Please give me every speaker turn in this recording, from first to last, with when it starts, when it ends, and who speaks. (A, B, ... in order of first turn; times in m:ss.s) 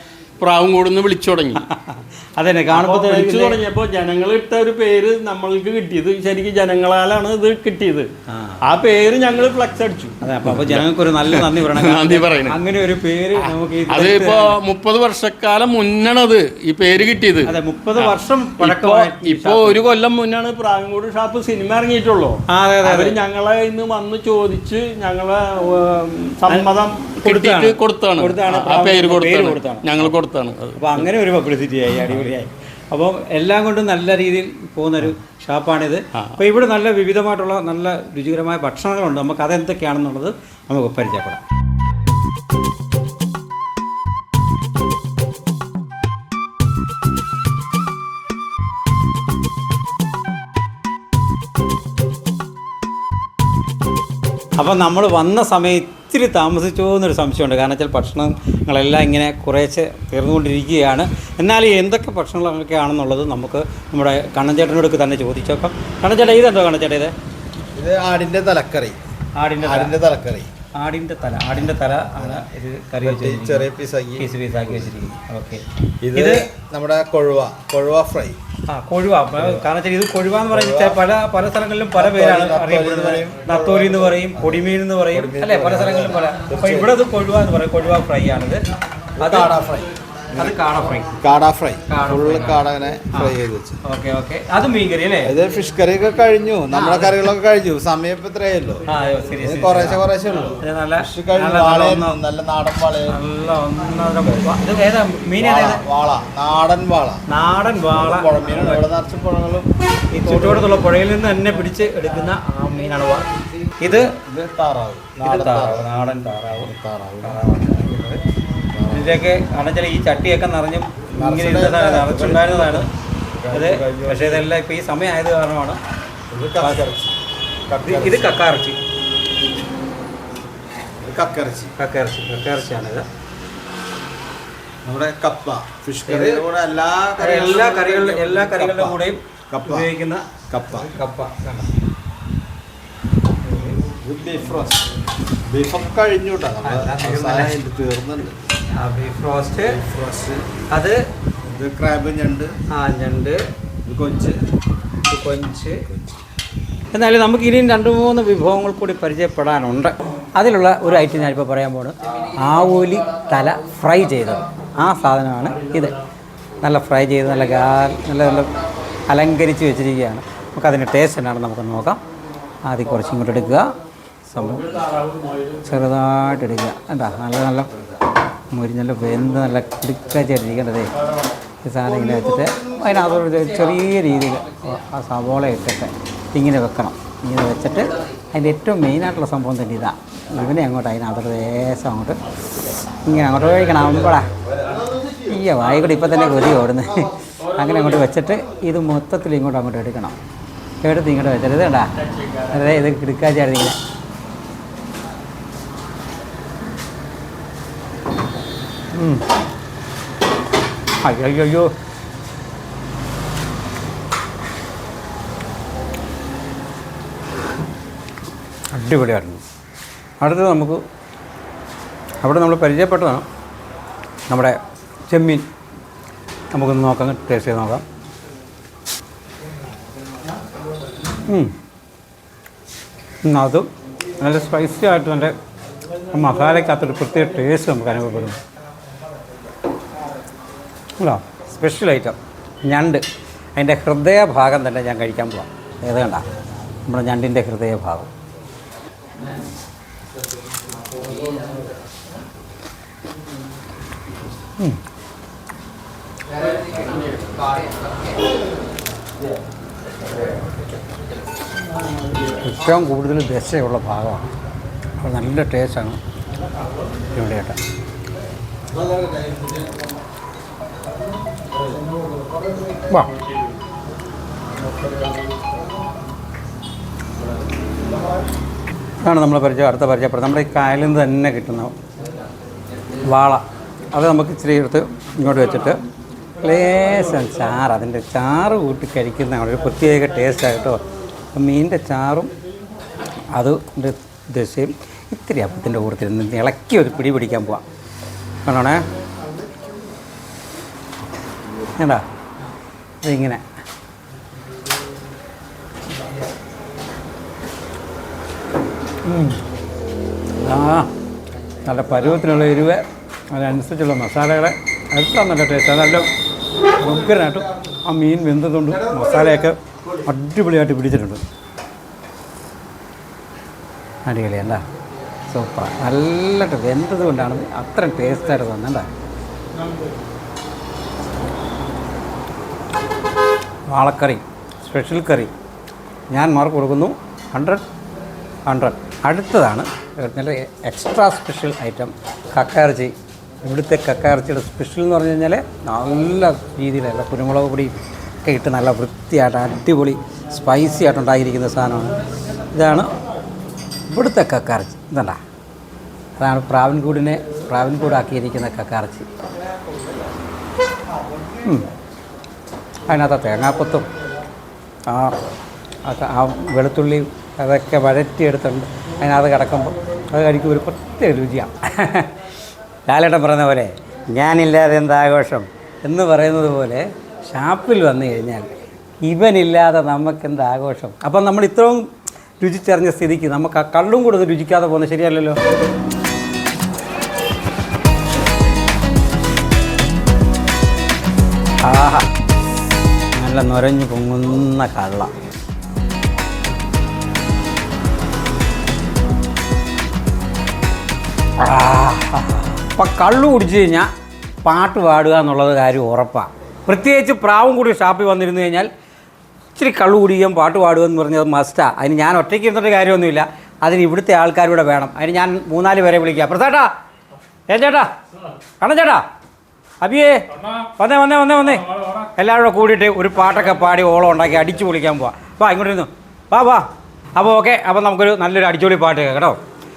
0:00.4-0:01.6 A
0:01.6-0:03.6 B
0:02.7-0:08.1 A
0:08.3-0:08.6 B
0:08.6-0:12.6 A
0:10.2-0:14.6 B
0:13.4-0:31.1 A
0:17.5-0:19.8 B
0:22.5-0:23.2 B
0:27.2-0:30.1 B
0:30.8-0:41.4 B
0:54.6-1:07.1 B
1:07.7-1:09.0 C
1:09.4-1:10.0 B
1:09.6-1:10.5 C
1:10.8-1:16.5 B
1:12.2-1:12.4 C
1:13.0-1:14.3 C
1:16.0-1:18.4 C
1:18.7-1:28.6 B
1:19.4-1:19.6 C
1:20.5-1:21.0 C
1:22.0-1:27.0 C
1:29.2-1:29.9 C
1:29.2-1:29.6 B
1:30.3-1:31.2 B
1:31.2-1:33.8 C
1:31.9-1:35.4 B
1:35.2-1:38.9 C
1:36.7-1:37.3 B
1:38.9-1:40.1 B
1:39.4-1:43.2 C
1:40.6-1:42.2 B
1:43.1-1:45.8 B
1:45.4-1:47.2 C
1:47.3-1:48.8 B
1:47.9-1:50.7 C
1:50.1-1:53.3 B
1:53.8-1:54.2 B
1:54.1-1:57.6 C
1:55.2-1:58.2 B
1:58.7-1:59.2 C
1:58.9-2:02.9 B
2:01.1-2:02.9 C
2:03.4-2:04.5 C
2:03.5-2:05.8 B
2:06.3-2:07.2 C
2:06.6-2:06.9 B
2:07.7-2:08.5 C
2:07.8-2:08.8 B
2:11.0-2:11.7 C
2:11.8-2:13.1 B
2:14.8-2:19.9 C
2:16.0-2:16.4 B
2:17.2-2:21.7 B
2:20.5-2:20.9 C
2:23.4-2:23.8 B
2:23.9-2:24.9 C
2:25.5-2:28.4 C
2:26.6-2:27.6 B
2:28.8-2:29.8 B
2:29.6-2:30.5 C
2:30.7-2:31.0 B
2:31.4-2:32.6 C
2:32.7-2:33.4 B
2:33.9-2:34.4 C
2:35.1-2:35.9 B
2:36.9-2:46.0 B
2:45.4-2:46.0 A
2:46.6-2:48.5 B
2:49.1-2:52.0 B
2:52.6-2:53.8 B
2:54.3-2:54.8 B
2:54.4-2:55.7 A
2:55.6-2:57.8 B
2:58.5-3:00.9 B
3:01.6-3:12.2 B
3:13.0-3:14.3 B
3:14.7-3:15.3 C
3:15.1-3:20.2 B
3:15.7-3:16.0 A
3:17.4-3:18.2 A
3:20.8-3:21.9 B
3:22.0-3:22.9 A
3:22.5-3:23.8 B
3:28.9-3:29.2 B
3:31.0-3:31.7 B
3:38.7-3:39.4 B
3:40.2-3:40.8 B
3:42.2-3:43.2 B
3:44.3-3:45.5 B
3:46.5-3:47.8 B
3:51.2-3:51.5 B
3:53.2-3:55.3 B
3:56.1-3:58.4 B
4:01.0-4:03.0 B
4:03.6-4:06.2 B
4:06.9-4:08.1 B
4:22.2-4:24.3 B
4:25.0-4:26.0 B
4:27.1-4:27.6 B
4:28.9-4:29.5 C
4:32.9-4:33.1 B
4:39.0-4:41.8 B
4:43.0-4:45.8 B
4:46.4-4:50.8 B
4:51.3-4:52.3 B
4:53.3-4:57.6 B
4:58.4-4:58.8 B
5:01.8-5:02.0 B
5:03.0-5:03.4 B
5:09.1-5:09.4 B
5:10.4-5:10.9 B
5:11.6-5:16.1 B
5:16.8-5:21.2 B
5:24.1-5:24.6 B
5:25.3-5:28.9 B
5:33.7-5:35.3 B
5:36.1-5:37.6 B
5:38.5-5:52.0 B
5:52.5-5:53.0 B
5:53.9-5:55.2 B
5:56.2-5:59.1 B
6:01.4-6:01.7 B
6:02.9-6:03.9 B
6:04.9-6:05.2 B
6:05.8-6:12.1 B
6:12.9-6:21.8 B
6:22.4-6:25.4 B
6:31.6-6:32.1 B
6:33.1-6:35.1 B
6:41.4-6:43.9 B
6:44.4-6:48.7 B
6:49.6-6:56.7 B
6:57.5-6:57.9 B
6:58.6-6:59.0 B
6:59.8-7:09.4 B